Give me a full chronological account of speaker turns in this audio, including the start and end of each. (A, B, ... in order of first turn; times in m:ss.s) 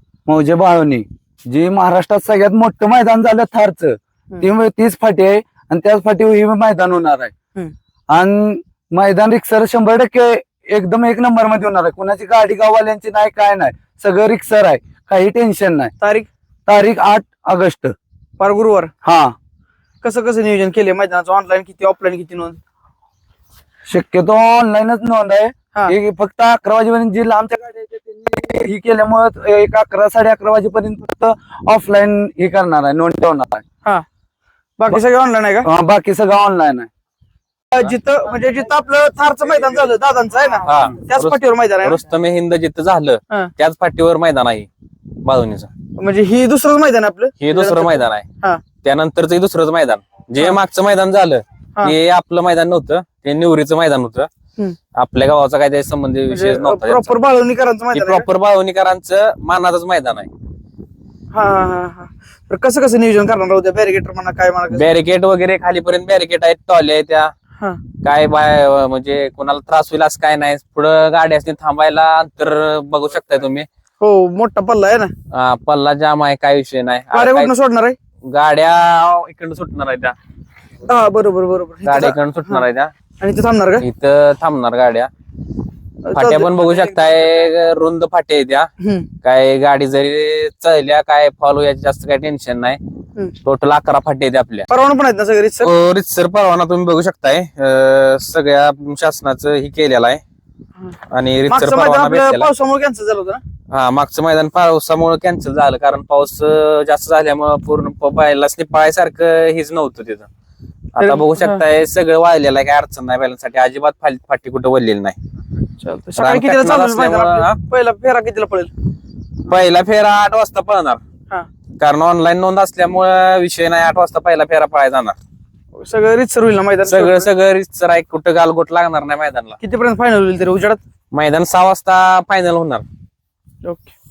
0:00.3-0:07.3 A
0:08.1-0:15.9 A
0:16.0-0:16.3 B
0:16.7-0:17.9 A
0:18.4-0:18.9 B
0:19.0-0:19.3 A
0:20.0-0:22.6 B
0:23.9-0:33.6 A
0:34.8-0:35.7 B
0:35.6-0:36.9 A
0:37.7-0:42.0 B
0:40.6-0:44.7 C
0:45.2-0:45.7 C
0:46.0-0:48.6 B
0:47.4-0:48.3 C
0:48.8-0:54.3 C
0:55.0-0:57.1 C
0:56.3-0:58.3 B
0:57.9-1:00.3 C
1:01.3-1:04.9 B
1:04.7-1:07.3 C
1:08.0-1:13.7 C
1:14.0-1:15.1 B
1:15.3-1:17.5 C
1:17.1-1:18.0 B
1:18.3-1:20.1 C
1:20.8-1:22.6 B
1:21.8-1:22.9 C
1:23.2-1:23.8 B
1:23.8-1:25.1 C
1:26.0-1:27.2 B
1:26.1-1:28.7 C
1:28.8-1:29.1 B
1:29.2-1:32.8 C
1:33.4-1:34.7 C
1:34.7-1:35.7 B
1:35.6-1:40.2 C
1:41.1-1:42.5 C
1:41.5-1:43.4 B
1:43.7-1:50.3 C
1:50.9-1:55.2 C
1:51.0-1:51.6 B
1:55.8-1:58.7 B
1:56.2-1:57.6 C
1:59.5-2:01.0 C
2:01.8-2:05.2 C
2:05.8-2:07.3 B
2:06.9-2:09.6 C
2:09.6-2:10.8 B
2:11.1-2:12.8 C
2:13.6-2:13.9 B